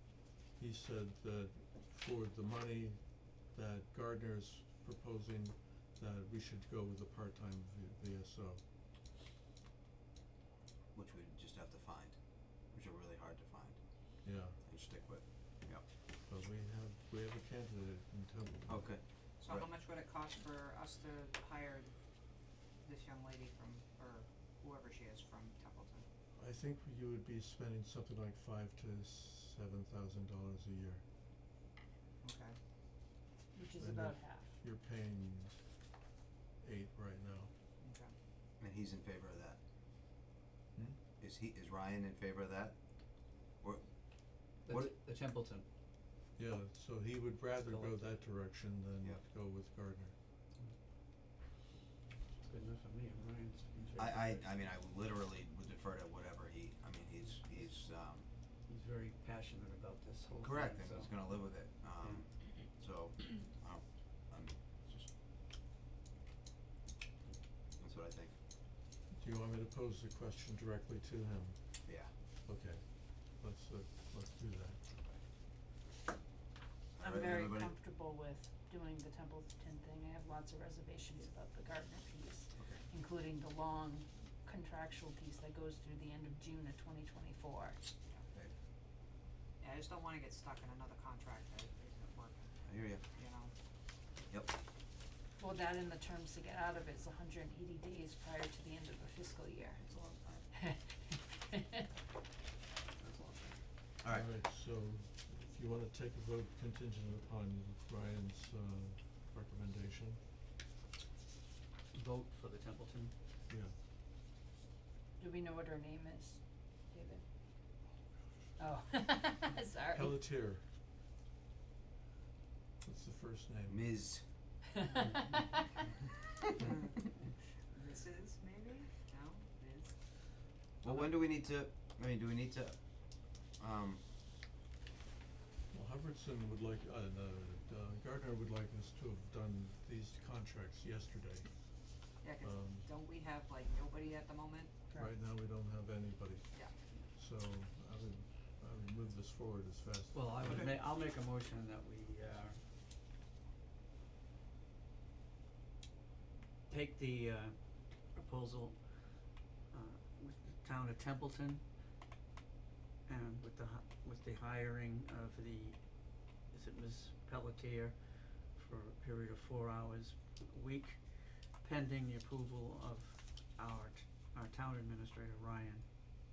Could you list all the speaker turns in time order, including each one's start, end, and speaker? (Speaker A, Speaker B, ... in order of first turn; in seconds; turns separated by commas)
Speaker A: 0.6-8.6, Speaker B: 10.9-12.2, Speaker B: 12.7-13.8, Speaker A: 14.2-14.6, Speaker B: 14.6-15.8, Speaker A: 16.3-18.9, Speaker B: 18.7-19.7, Speaker C: 19.4-21.9, Speaker C: 22.8-26.1, Speaker A: 26.4-31.0, Speaker C: 32.2-32.6, Speaker D: 33.5-34.5, Speaker A: 33.8-35.6, Speaker A: 36.6-37.5, Speaker C: 37.8-38.1, Speaker B: 38.6-39.6, Speaker B: 41.2-42.8, Speaker E: 44.6-45.7, Speaker B: 44.7-45.0, Speaker A: 46.4-50.1, Speaker E: 47.6-48.0, Speaker E: 52.4-54.5, Speaker B: 54.0-58.3, Speaker E: 58.7-61.4, Speaker B: 60.4-65.1, Speaker B: 67.8-68.3, Speaker A: 69.1-71.8, Speaker B: 71.9-72.1, Speaker A: 72.5-74.8, Speaker B: 77.0-77.8, Speaker D: 77.0-87.8, Speaker B: 82.5-82.8, Speaker C: 89.6-92.5, Speaker B: 92.6-93.0, Speaker C: 93.2-93.5, Speaker B: 94.3-94.5, Speaker D: 95.4-99.8, Speaker B: 99.6-100.5, Speaker B: 103.0-104.3, Speaker A: 104.1-110.2, Speaker E: 111.9-113.1, Speaker A: 113.5-113.7, Speaker D: 115.2-117.2, Speaker D: 118.6-120.2, Speaker A: 119.9-120.6, Speaker A: 122.8-123.8, Speaker B: 123.7-124.2, Speaker C: 126.6-127.0, Speaker C: 127.7-129.9, Speaker B: 130.8-132.8, Speaker B: 133.6-134.0, Speaker A: 135.7-141.5, Speaker C: 142.2-144.8, Speaker A: 142.4-142.9, Speaker A: 145.0-146.5, Speaker A: 147.1-150.8, Speaker E: 150.1-152.6, Speaker E: 156.7-158.8, Speaker E: 159.7-161.6, Speaker E: 163.1-165.8, Speaker E: 166.5-175.8